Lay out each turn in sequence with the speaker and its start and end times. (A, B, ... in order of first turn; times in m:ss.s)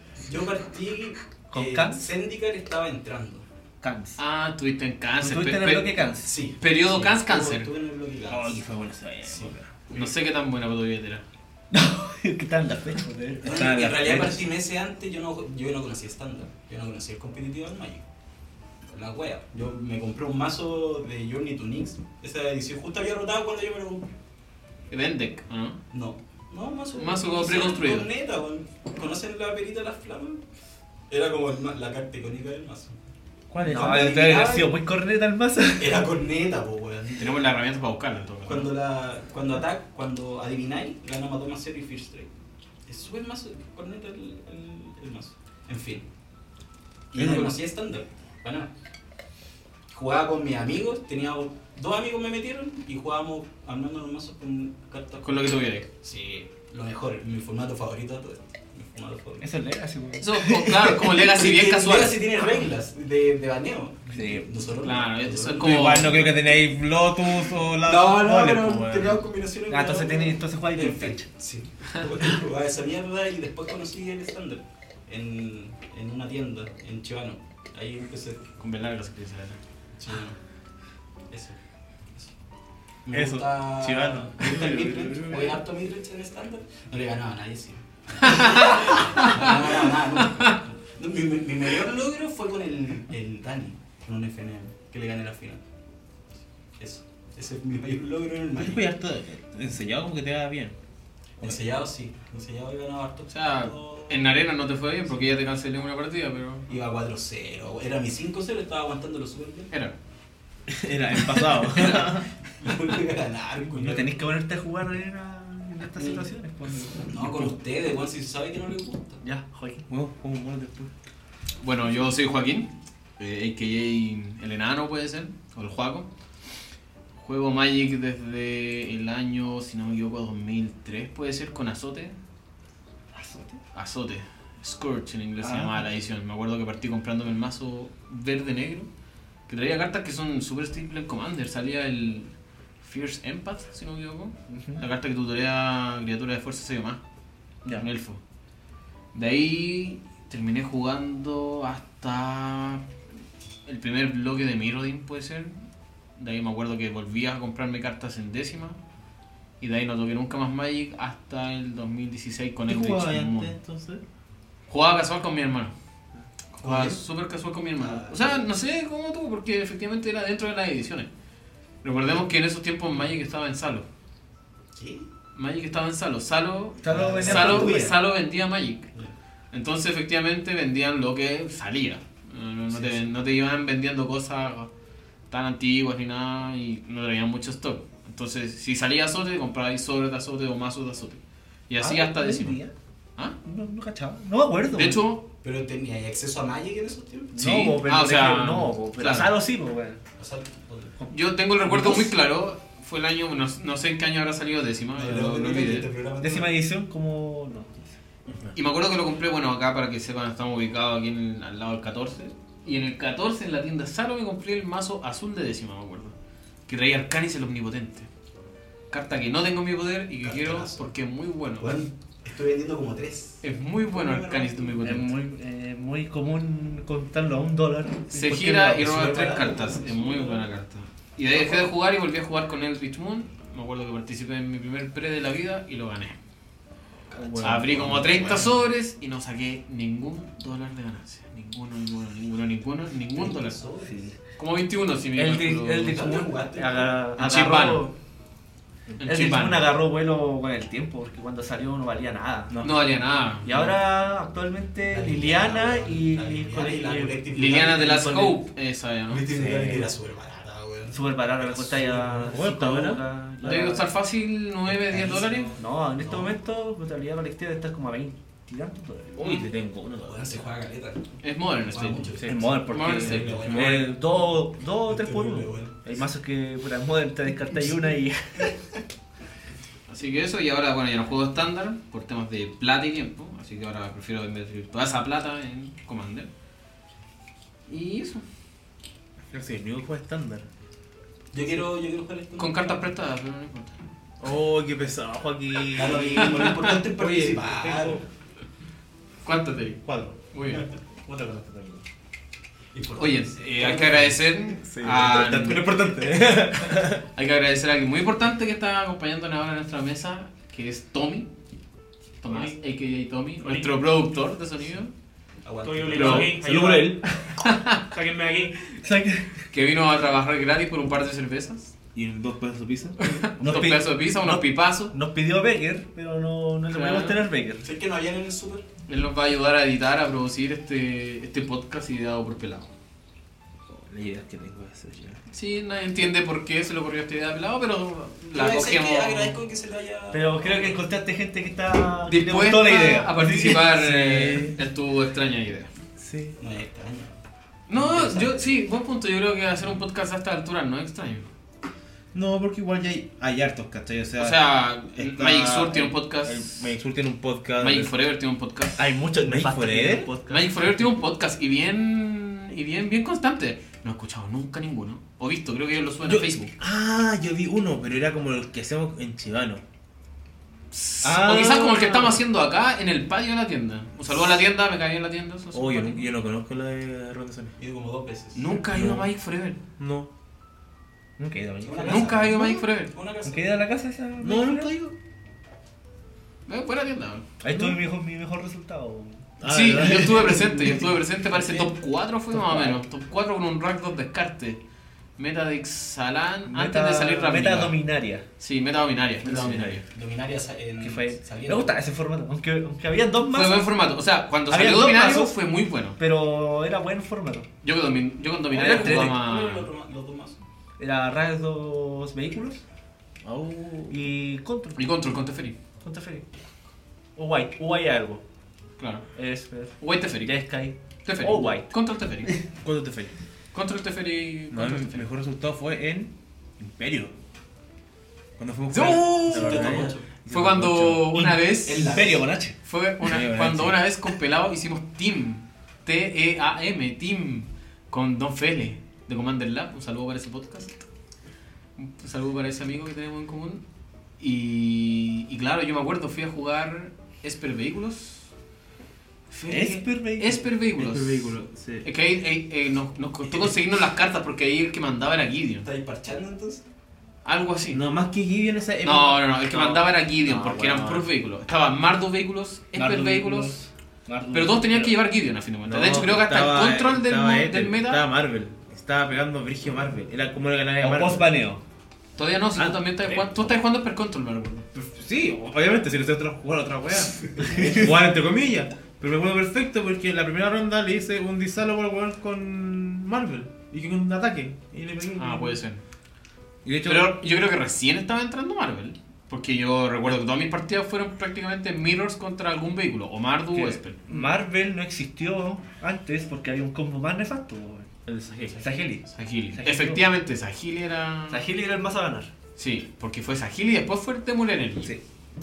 0:00.2-0:03.5 A
0:01.5-0:02.0 B
0:03.8-0:04.2 B
0:04.2-0:06.0 C
0:05.2-0:06.4 B
0:06.2-0:08.6 A
0:06.6-0:07.7 C
0:08.3-0:09.7 D
0:09.3-0:10.1 A
0:09.9-0:11.2 C
0:11.7-0:14.4 B
0:13.4-0:18.0 A
0:13.4-0:14.4 D
0:18.9-0:24.1 A
0:24.9-0:25.8 C
0:25.9-0:30.4 A
0:27.0-0:28.1 C
0:31.1-0:32.9 A
0:33.5-0:36.0 B
0:33.6-0:34.7 A
0:35.7-0:37.4 A
0:37.2-0:38.7 C
0:38.5-0:42.3 A
0:42.9-0:46.0 A
0:47.1-0:48.7 A
0:47.2-0:47.5 D
0:49.9-0:59.5 A
0:55.2-0:55.9 C
0:59.4-1:01.0 B
1:00.2-1:02.2 C
1:01.0-1:06.6 A
1:04.1-1:04.5 B
1:04.8-1:06.3 C
1:05.6-1:09.2 D
1:07.7-1:18.5 A
1:09.7-1:11.3 B
1:18.6-1:19.6 C
1:20.0-1:20.4 A
1:21.3-1:21.6 A
1:23.1-1:35.6 A
1:23.1-1:25.6 D
1:28.2-1:29.5 C
1:30.2-1:30.6 C
1:36.8-1:38.8 A
1:38.6-1:40.8 D
1:41.4-1:44.3 A
1:43.3-1:46.7 C
1:46.7-1:49.7 A
1:50.7-1:52.3 D
1:51.6-1:54.2 A
1:53.7-1:57.1 B
1:55.9-1:56.3 A
1:57.0-1:59.2 A
1:57.2-1:57.5 D
1:59.2-1:59.8 B
1:59.9-2:00.9 D
2:01.6-2:06.1 C
2:07.2-2:12.2 C
2:13.1-2:13.6 B
2:13.7-2:18.9 C
2:15.4-2:15.8 B
2:19.5-2:27.0 C
2:24.5-2:24.8 B
2:27.7-2:28.2 C
2:29.1-2:32.8 C
2:33.7-2:35.6 C
2:36.2-2:38.8 C
2:39.6-2:43.6 C
2:42.7-2:44.0 D
2:44.7-2:45.7 C
2:46.5-2:51.1 C
2:46.6-2:47.0 A
2:47.8-2:48.4 A
2:51.8-2:53.9 C
2:54.8-2:55.1 A
2:55.3-2:58.9 C
2:56.8-2:58.0 B
2:56.9-2:57.9 A
2:59.5-3:04.7 C
3:02.7-3:03.1 A
3:05.3-3:12.6 C
3:11.8-3:12.7 B
3:13.4-3:15.0 B
3:14.7-3:15.2 C
3:15.4-3:17.4 A
3:17.3-3:20.0 B
3:17.4-3:19.3 C
3:20.2-3:20.9 A
3:21.0-3:22.1 B
3:21.1-3:25.9 C
3:25.0-3:26.6 A
3:26.2-3:28.0 B
3:28.5-3:36.1 C
3:36.7-3:38.1 C
3:38.9-3:41.9 C
3:40.2-3:40.9 A
3:41.6-3:45.0 A
3:43.4-3:45.2 C
3:44.8-3:49.0 B
3:48.1-3:56.2 C
3:48.6-3:50.5 A
3:51.3-3:51.7 A
3:57.1-3:58.1 D
3:57.1-3:58.6 A
3:57.4-4:03.6 C
4:03.2-4:04.1 A
4:03.8-4:04.2 B
4:04.4-4:06.0 C
4:05.2-4:08.0 B
4:05.8-4:07.0 A
4:07.2-4:07.9 C
4:09.0-4:09.7 C
4:09.0-4:12.6 B
4:12.5-4:12.8 D
4:12.6-4:13.8 C
4:13.4-4:18.4 B
4:14.8-4:18.0 A
4:17.3-4:19.3 C
4:19.1-4:22.4 A
4:19.3-4:19.9 B
4:20.9-4:23.9 B
4:22.3-4:23.0 D
4:23.4-4:25.5 C
4:24.7-4:26.4 A
4:25.6-4:29.4 B
4:29.2-4:30.4 D
4:29.9-4:34.0 A
4:31.2-4:33.4 C
4:32.2-4:38.6 B
4:33.1-4:33.9 D
4:34.8-4:35.9 A
4:39.9-4:46.3 C
4:47.7-4:48.2 C
4:49.3-4:50.5 D
4:51.3-4:52.9 A
4:52.4-4:53.8 C
4:54.2-4:58.0 D
4:55.7-4:58.0 A
4:56.2-4:56.7 C
4:59.2-5:00.7 C
4:59.8-5:00.2 D
5:01.0-5:01.8 D
5:02.7-5:04.4 A
5:03.0-5:05.7 C
5:04.6-5:07.0 D
5:07.1-5:11.3 C
5:12.2-5:14.9 C
5:12.3-5:12.6 E
5:13.4-5:13.8 E
5:15.4-5:16.4 A
5:15.6-5:17.0 E
5:15.9-5:17.0 D
5:17.4-5:17.8 C
5:17.8-5:18.8 E
5:18.8-5:19.3 B
5:19.5-5:21.7 C
5:21.9-5:23.0 D
5:23.0-5:25.0 C
5:23.4-5:27.7 B
5:26.7-5:27.2 C
5:27.6-5:28.6 A
5:28.9-5:32.7 C
5:33.7-5:35.2 D
5:35.3-5:39.4 C
5:38.3-5:40.8 A
5:40.1-5:44.4 B
5:42.1-5:45.7 C
5:43.8-5:44.6 D
5:46.0-5:46.4 D
5:46.4-5:47.2 A
5:47.7-5:51.3 C
5:47.7-5:48.4 A
5:52.1-5:57.9 D
5:54.2-5:56.6 C
5:57.6-5:58.8 C
5:58.8-6:00.5 B
5:59.2-6:00.1 D
6:00.3-6:06.5 C
6:06.0-6:09.6 D
6:10.7-6:16.1 C
6:11.0-6:12.1 D
6:11.1-6:12.2 B
6:15.5-6:17.6 D
6:17.6-6:18.5 A
6:18.4-6:19.6 C
6:18.6-6:19.1 D
6:19.8-6:20.1 D
6:21.2-6:22.4 B
6:21.6-6:23.6 A
6:21.9-6:22.9 C
6:23.2-6:24.7 B
6:24.2-6:25.0 D
6:26.5-6:27.3 C
6:27.4-6:29.3 B
6:27.4-6:27.8 D
6:29.4-6:30.8 D
6:29.4-6:34.6 C
6:30.0-6:30.4 B
6:31.3-6:31.7 A
6:32.3-6:32.8 B
6:35.2-6:37.8 C
6:36.5-6:38.3 B
6:38.4-6:39.8 C
6:39.2-6:39.8 B
6:39.6-6:41.7 A
6:40.8-6:43.7 B
6:43.3-6:46.0 C
6:44.5-6:45.4 B
6:46.0-6:47.5 B
6:47.6-6:49.7 C
6:48.5-6:49.2 B
6:48.5-6:50.4 A
6:50.8-6:52.6 B
6:53.2-6:54.0 D
6:53.9-6:54.9 B
6:54.8-6:55.6 C
6:55.8-6:56.2 B
6:57.2-6:58.2 B
6:58.8-6:59.1 C
6:59.2-7:01.7 B
6:59.8-7:00.4 C
7:01.0-7:02.3 C
7:02.5-7:03.1 D
7:03.5-7:05.1 C
7:04.5-7:07.1 D
7:08.4-7:11.2 D
7:08.7-7:12.0 C
7:09.2-7:10.1 A
7:11.1-7:12.6 B
7:11.6-7:12.2 A
7:12.6-7:20.9 C
7:13.0-7:13.8 D
7:21.8-7:23.6 C
7:24.2-7:28.3 C
7:29.3-7:31.3 C
7:29.5-7:30.4 B
7:30.8-7:31.9 D
7:31.8-7:35.7 C
7:35.6-7:36.6 A
7:37.2-7:37.8 C
7:37.7-7:41.1 D
7:38.8-7:43.6 C
7:42.7-7:45.0 B
7:44.3-7:48.1 C
7:45.6-7:51.3 D
7:50.8-7:51.6 B
7:52.2-7:54.7 C
7:52.6-7:53.5 D
7:54.7-8:05.6 D
8:05.2-8:05.8 C
8:06.6-8:07.2 D
8:06.8-8:14.4 C
8:13.6-8:17.9 B
8:18.1-8:18.6 D
8:18.6-8:20.1 B
8:19.1-8:21.5 C
8:21.3-8:22.3 B
8:22.6-8:24.9 C